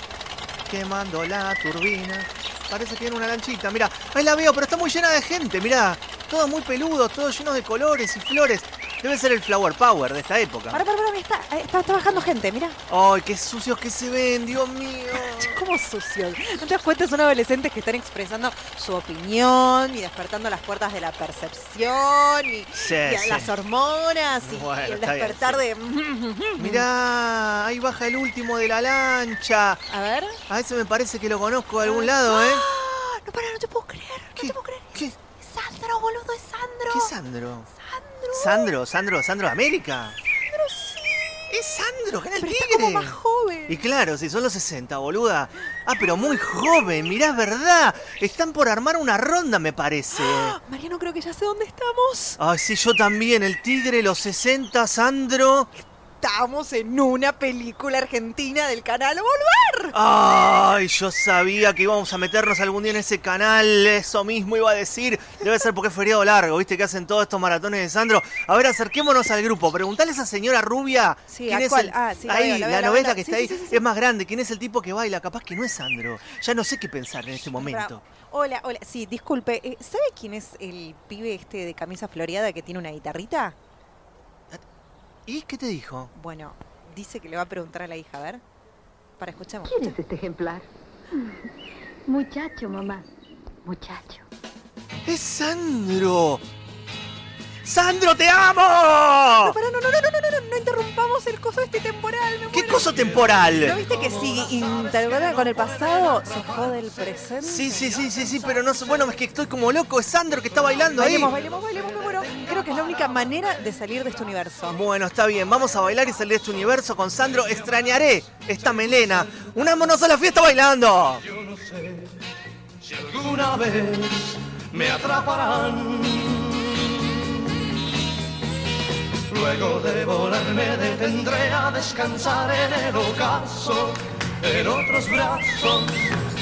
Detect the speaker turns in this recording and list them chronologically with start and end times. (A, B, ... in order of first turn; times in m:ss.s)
0:00.7-0:10.8 A
0:10.7-0:12.8 B
0:12.9-0:15.6 A
0:15.1-0:26.9 B
0:22.7-0:23.5 A
0:24.4-0:25.6 A
0:26.6-0:29.8 A
0:29.9-0:30.4 B
0:30.5-0:32.6 A
0:31.8-0:37.1 B
0:34.4-0:35.2 A
0:36.9-0:37.7 A
0:37.8-0:38.7 B
0:38.3-0:40.2 A
0:40.3-0:41.6 B
0:41.5-0:50.6 A
0:42.4-0:43.8 B
0:46.0-0:47.1 B
0:50.1-0:52.4 B
0:52.4-0:55.7 A
0:55.8-0:59.9 B
0:59.9-1:18.0 A
1:11.3-1:13.8 B
1:17.4-1:23.6 B
1:25.3-1:26.1 A
1:26.1-1:28.4 B
1:29.2-1:30.0 B
1:29.6-1:31.5 C
1:32.1-1:33.1 C
1:33.6-1:34.2 C
1:35.0-1:36.4 A
1:37.6-1:39.6 A
1:39.3-1:48.2 B
1:42.5-1:43.8 A
1:47.4-1:51.3 A
1:51.0-1:54.8 B
1:54.7-2:01.2 A
2:02.9-2:06.5 D
2:09.4-2:15.9 D